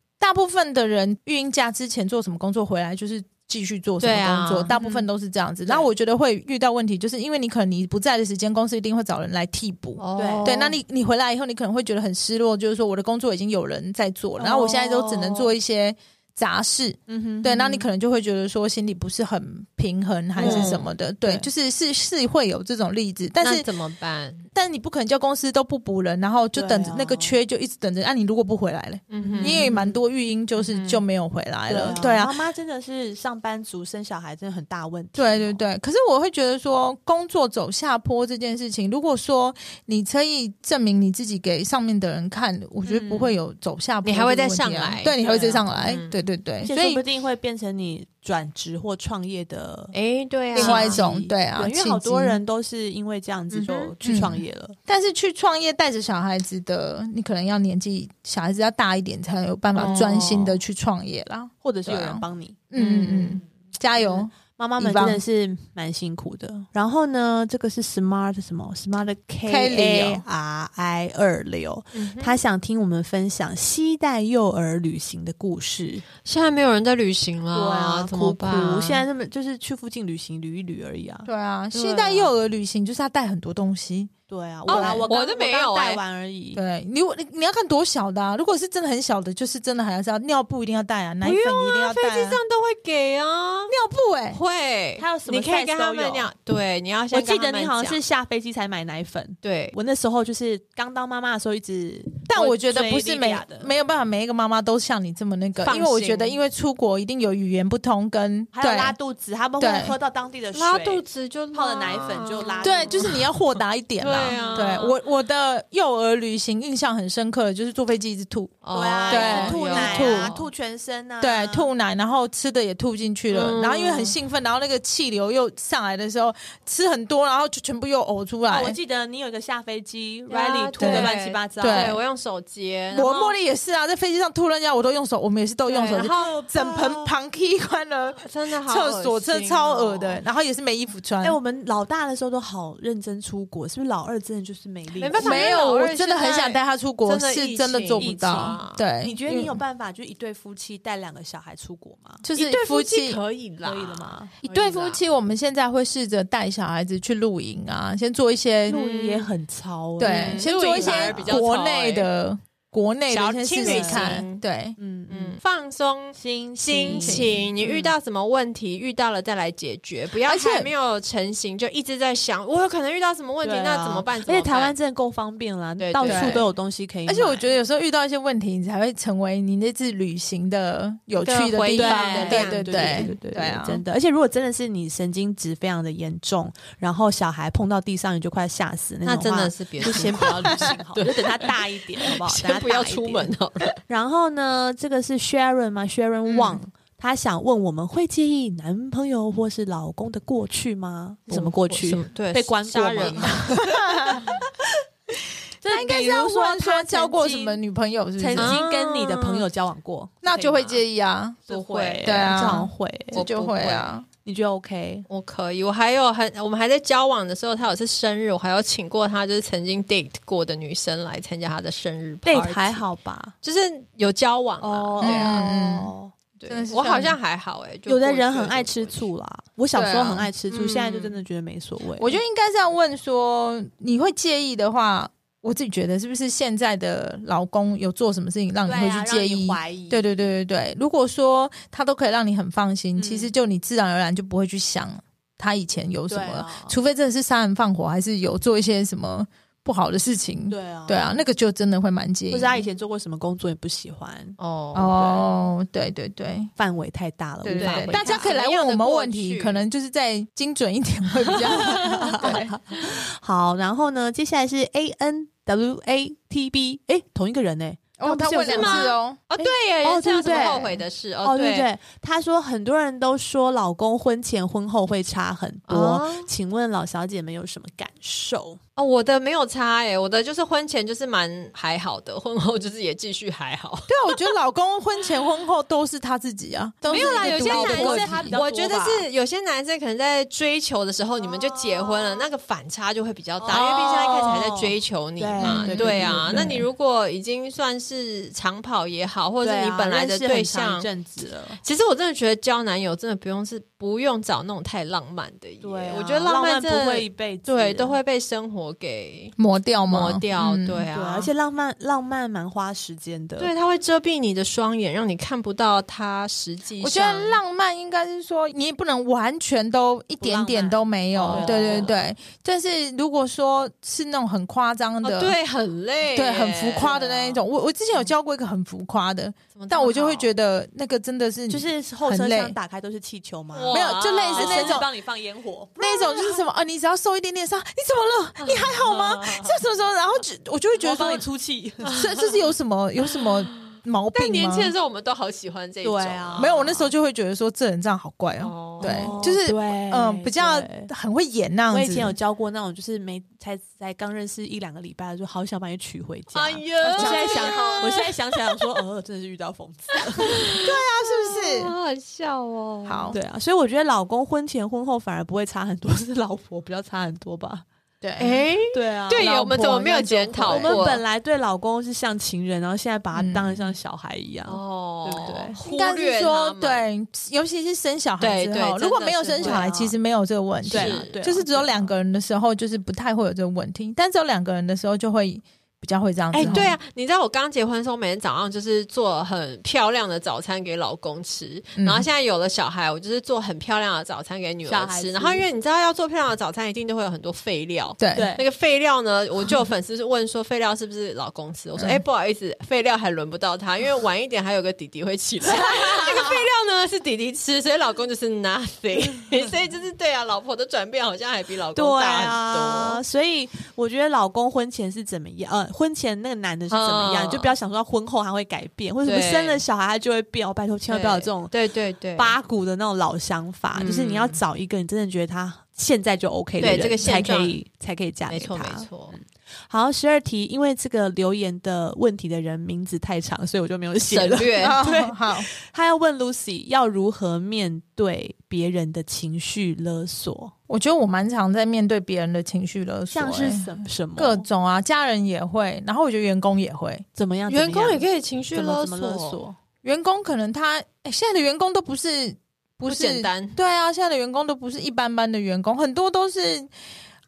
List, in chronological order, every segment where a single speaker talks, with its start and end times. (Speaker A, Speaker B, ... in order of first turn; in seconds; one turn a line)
Speaker A: 0.2-23.7
Speaker B: 4.0-4.7
Speaker C: 4.8-5.1
Speaker B: 10.0-10.8
Speaker C: 10.2-10.5
Speaker C: 14.4-15.5
Speaker C: 17.1-17.9
Speaker C: 20.4-21.5
Speaker B: 20.4-20.9
Speaker B: 23.4-24.5
Speaker A: 24.5-32.3
Speaker C: 26.5-27.4
Speaker B: 29.1-29.7
Speaker C: 29.2-30.0
Speaker B: 30.6-31.0
Speaker C: 31.7-35.6
Speaker A: 35.1-47.0
Speaker C: 42.8-43.4
Speaker B: 44.0-46.1
Speaker C: 45.2-45.6
Speaker C: 46.6-49.9
Speaker B: 49.9-51.0
Speaker A: 50.5-52.4
Speaker C: 50.5-54.8
Speaker B: 53.5-53.9
Speaker A: 54.0-65.2
Speaker C: 59.8-60.2
Speaker B: 59.8-60.6
Speaker C: 61.6-62.6
Speaker B: 62.8-63.4
Speaker C: 64.0-76.0
Speaker A: 69.5-70.2
Speaker B: 71.9-72.4
Speaker B: 76.2-79.0
Speaker C: 77.5-82.3
Speaker A: 81.2-84.1
Speaker C: 84.3-86.6
Speaker A: 84.7-85.1
Speaker B: 84.7-86.0
Speaker A: 86.5-92.4
Speaker B: 91.2-93.7
Speaker A: 93.7-94.4
Speaker B: 94.3-98.0
Speaker C: 95.0-96.3
Speaker C: 97.1-103.7
Speaker B: 99.4-99.7
Speaker A: 102.3-109.0
Speaker B: 105.6-106.4
Speaker C: 108.5-113.1
Speaker A: 109.6-109.9
Speaker B: 110.5-113.2
Speaker A: 112.6-120.3
Speaker B: 114.0-115.0
Speaker C: 114.3-114.8
Speaker B: 118.6-120.5
Speaker C: 118.7-121.7
Speaker A: 121.2-128.8
Speaker B: 123.3-124.2
Speaker C: 128.5-132.0
Speaker B: 130.3-133.4
Speaker A: 130.8-132.0
Speaker A: 132.9-141.4
Speaker B: 135.7-137.0
Speaker C: 136.0-137.0
Speaker B: 138.2-140.2
Speaker C: 141.2-145.6
Speaker B: 145.0-148.8
Speaker A: 145.2-149.6
Speaker C: 148.0-152.2
Speaker A: 152.2-153.2
Speaker B: 152.3-155.0
Speaker C: 153.6-154.3
Speaker A: 154.4-158.8
Speaker C: 158.7-161.4
Speaker B: 158.7-159.3
Speaker A: 160.0-164.8
Speaker B: 160.0-162.1
Speaker B: 163.1-164.4
Speaker C: 163.6-164.2
Speaker C: 164.8-165.4
Speaker B: 165.1-174.8
Speaker C: 166.1-167.8
Speaker A: 166.9-167.8
Speaker A: 170.2-170.7
Speaker C: 173.4-177.5
Speaker B: 175.8-176.4
Speaker A: 176.0-176.4
Speaker A: 177.1-183.8
Speaker B: 181.2-183.1
Speaker C: 181.7-193.3
Speaker B: 189.0-193.8
Speaker A: 189.8-190.7
Speaker C: 193.9-204.7
Speaker A: 196.3-196.6
Speaker B: 201.3-203.4
Speaker A: 203.4-204.3
Speaker C: 205.6-207.6
Speaker A: 205.6-208.6
Speaker C: 208.2-210.8
Speaker B: 208.4-209.5
Speaker A: 210.2-211.4
Speaker C: 211.5-213.7
Speaker B: 211.5-213.9
Speaker A: 212.0-214.1
Speaker C: 214.2-215.1
Speaker B: 215.1-222.8
Speaker C: 222.2-223.3
Speaker B: 223.4-225.4
Speaker C: 224.6-226.1
Speaker A: 225.0-225.9
Speaker B: 226.4-229.0
Speaker A: 226.5-227.2
Speaker C: 227.9-232.2
Speaker A: 229.7-230.3
Speaker B: 230.5-231.2
Speaker A: 232.0-252.6
Speaker C: 238.6-240.1
Speaker C: 242.9-243.3
Speaker C: 246.1-246.8
Speaker C: 250.5-251.2
Speaker C: 252.3-255.2
Speaker B: 254.4-255.2
Speaker A: 254.7-256.5
Speaker C: 256.6-258.3
Speaker A: 257.4-262.5
Speaker B: 257.6-259.6
Speaker B: 261.3-262.3
Speaker C: 261.4-278.6
Speaker A: 268.0-269.2
Speaker B: 268.4-271.7
Speaker B: 275.7-276.3
Speaker B: 278.8-284.3
Speaker A: 283.9-288.4
Speaker B: 286.9-300.9
Speaker C: 286.9-289.1
Speaker C: 291.2-292.3
Speaker C: 293.4-296.6
Speaker A: 293.5-294.3
Speaker A: 295.4-296.6
Speaker C: 299.4-301.6
Speaker B: 301.6-309.4
Speaker C: 305.6-308.0
Speaker A: 309.4-310.9
Speaker B: 309.9-311.3
Speaker C: 310.9-313.5
Speaker B: 313.4-317.4
Speaker A: 316.8-325.3
Speaker C: 320.2-321.9
Speaker B: 321.2-321.9
Speaker B: 325.0-327.4
Speaker A: 326.1-332.6
Speaker B: 329.5-330.3
Speaker C: 331.5-333.8
Speaker B: 333.5-334.8
Speaker A: 333.7-334.9
Speaker C: 334.3-336.1
Speaker A: 335.8-341.2
Speaker B: 338.4-339.6
Speaker C: 340.8-341.9
Speaker B: 341.8-342.4
Speaker A: 341.9-344.7
Speaker B: 343.1-346.9
Speaker C: 345.8-346.8
Speaker A: 346.4-352.1
Speaker B: 348.4-349.1
Speaker C: 348.8-350.9
Speaker C: 351.7-360.6
Speaker B: 356.3-358.7
Speaker A: 356.8-357.9
Speaker B: 360.0-363.2
Speaker A: 360.5-361.7
Speaker A: 362.8-363.2
Speaker C: 363.1-367.6
Speaker A: 368.0-368.4
Speaker B: 368.2-371.0
Speaker C: 368.7-375.6
Speaker A: 370.4-370.8
Speaker A: 373.1-373.7
Speaker B: 374.5-376.9
Speaker A: 375.6-386.7
Speaker B: 378.2-379.7
Speaker C: 379.4-379.9
Speaker C: 380.7-381.9
Speaker B: 380.7-381.1
Speaker C: 386.3-386.7
Speaker B: 386.3-413.0
Speaker A: 391.8-392.1
Speaker C: 394.6-395.4
Speaker A: 398.0-398.3
Speaker C: 398.1-398.4
Speaker A: 401.8-402.0
Speaker C: 405.5-406.4
Speaker C: 411.7-421.5
Speaker B: 416.7-417.5
Speaker B: 419.0-419.6
Speaker B: 420.9-422.3
Speaker C: 422.1-440.5
Speaker B: 423.7-424.4
Speaker B: 426.6-427.6
Speaker B: 428.3-429.1
Speaker B: 434.1-434.8
Speaker A: 434.6-435.5
Speaker A: 440.7-447.0
Speaker C: 443.1-444.4
Speaker C: 447.1-449.6
Speaker B: 447.5-449.4
Speaker A: 449.8-456.7
Speaker B: 452.9-453.6